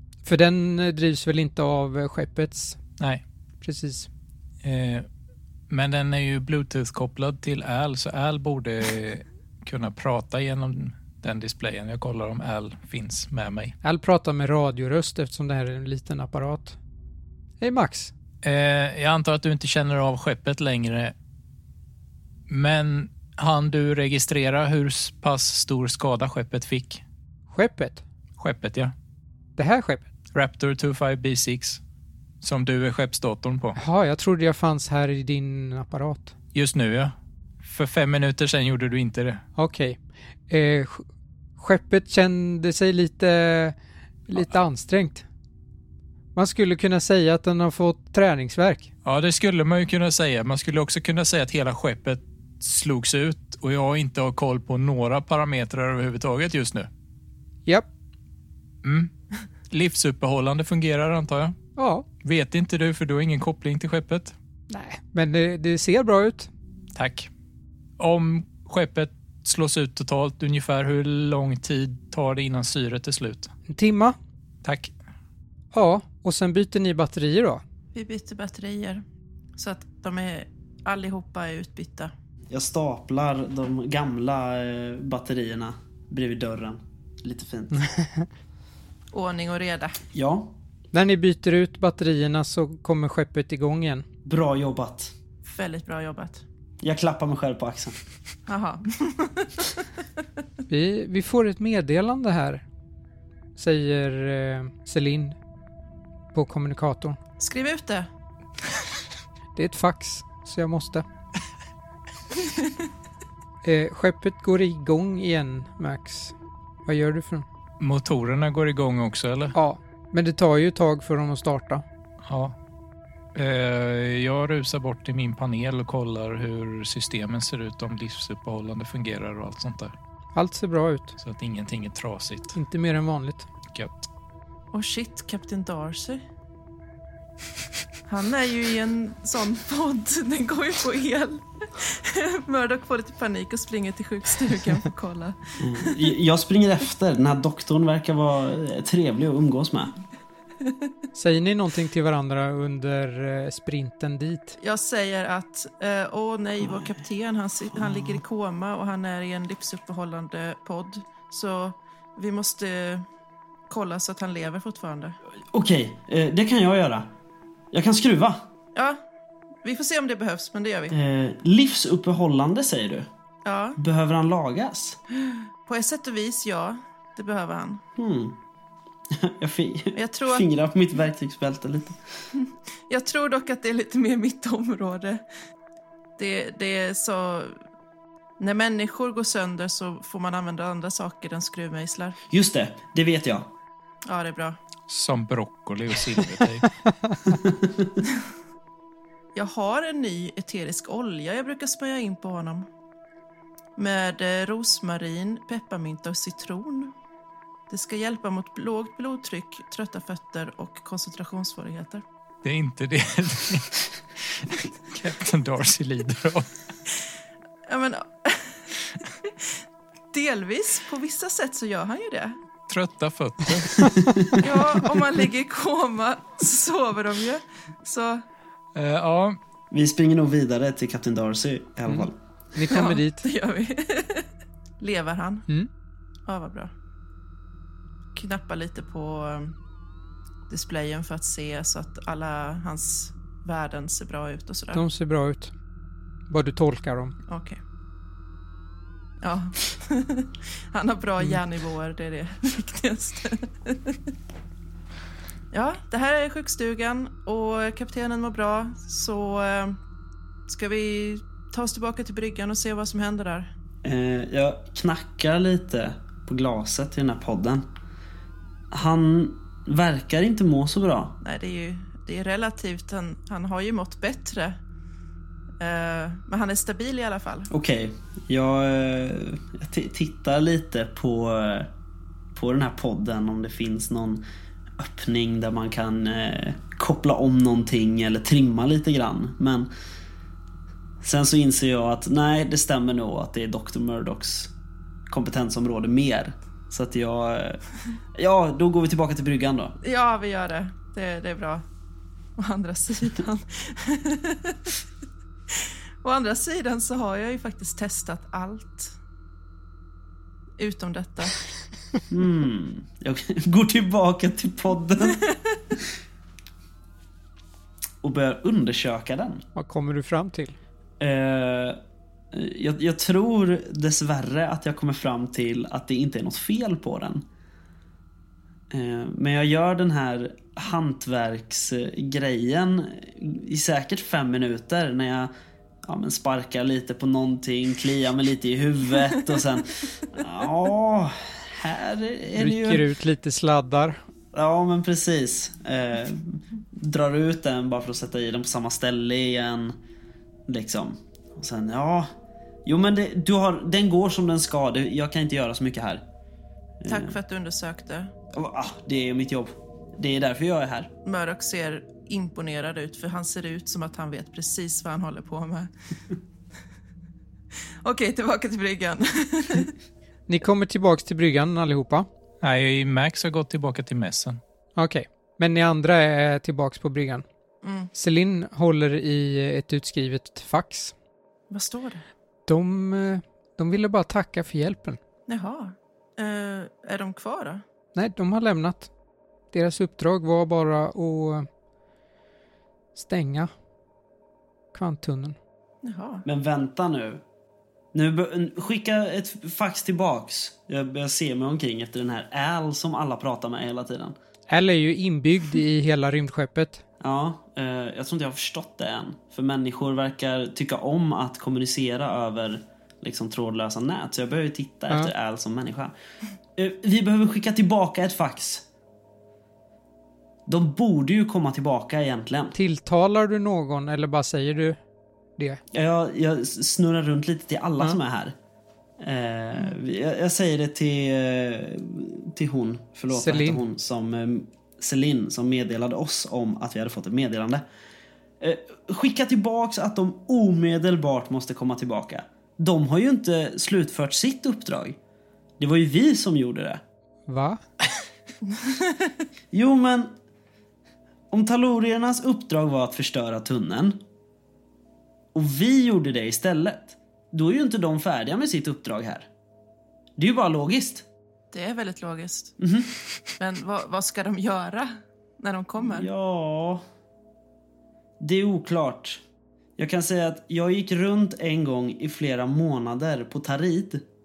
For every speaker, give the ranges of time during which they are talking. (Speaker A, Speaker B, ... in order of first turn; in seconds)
Speaker A: 0.2-2.8, 3.6-4.1, 13.8-16.8, 17.6-18.1, 27.5-28.0, 29.6-30.1, 33.8-36.3, 39.6-41.0, 41.6-43.8, 44.3-45.2, 46.4-48.9, 61.8-62.1, 64.7-66.5, 73.7-74.2, 75.7-77.6, 87.8-88.3, 90.9-94.0, 100.7-102.6, 103.6-105.4, 106.3-107.2, 109.6-111.0, 113.6-116.3, 116.9-117.5, 119.5-121.8, 130.3-131.2, 132.5-133.5, 151.1-154.6, 231.9-233.2, 244.7-245.5, 246.3-247.2, 319.6-320.6, 342.4-344.0, 370.3-372.1, 374.8-377.2, 377.9-380.9, 382.5-385.0, 387.9-388.9, 389.5-391.5, 392.9-393.5, 394.7-395.4, 404.5-406.8, 422.6-424.8, 433.1-433.6, 447.3-447.6
Speaker B: 4.6-5.1, 5.7-13.8, 18.4-21.1, 22.5-27.0, 28.4-28.9, 30.3-31.8, 32.4-33.8, 36.5-39.4, 49.0-56.9, 58.8-59.1, 59.7-61.5, 62.2-64.3, 67.0-67.3, 68.0-73.5, 74.6-74.9, 117.8-119.5, 122.2-122.5, 123.3-129.9, 131.2-132.6, 133.7-134.1, 194.9-196.7, 212.4-216.5, 222.7-223.9, 228.8-229.4, 372.4-374.4
Speaker C: 77.9-79.0, 79.6-82.1, 89.1-90.0, 95.5-96.4, 98.5-99.8, 107.4-108.1, 134.7-136.2, 138.1-146.1, 154.6-163.1, 163.7-165.2, 168.8-169.0, 169.6-170.9, 173.4-173.8, 175.7-177.8, 179.9-180.4, 182.3-185.2, 186.2-187.6, 188.4-192.2, 194.1-194.6, 199.3-202.7, 203.8-206.9, 207.7-212.0, 217.7-219.5, 220.1-222.4, 224.4-228.2, 232.7-234.3, 234.8-235.5, 236.3-236.7, 238.2-239.6, 240.5-244.8, 247.3-247.6, 249.2-254.1, 255.5-259.8, 260.5-263.5, 271.2-274.6, 275.6-277.5, 299.8-301.6, 302.4-304.8, 305.5-308.9, 310.6-311.4, 356.9-358.1, 361.1-365.7, 367.8-369.7, 377.6-377.9, 381.5-382.1, 385.3-387.6, 395.8-396.2, 448.6-449.1, 461.5-462.6, 463.4-466.1
Speaker D: 82.5-87.9, 90.1-90.5, 94.2-95.1, 96.8-98.0, 145.6-149.9, 156.6-157.0, 157.7-158.2, 165.5-167.1, 167.7-168.5, 170.9-173.1, 173.8-175.0, 178.0-178.4, 179.1-182.0, 192.3-193.5, 197.3-197.9, 229.7-232.2, 263.8-267.7, 268.7-271.2, 277.5-281.7, 282.3-284.2, 284.8-289.7, 291.0-294.5, 295.1-297.6, 298.1-299.8, 312.1-315.3, 318.0-319.4, 321.0-321.8, 322.3-327.2, 328.7-335.3, 335.8-342.9, 344.3-349.8, 350.5-352.1, 352.6-356.0, 356.8-357.2, 358.3-360.9, 396.2-397.2, 397.9-404.2, 407.0-415.9, 416.6-418.7, 420.5-422.6, 425.7-428.4, 429.0-437.6, 438.4-445.0, 445.6-446.8, 449.5-450.1, 451.3-454.0, 455.3-459.3, 460.2-461.1, 462.6-462.9, 465.8-466.8, 468.2-469.2, 469.8-474.1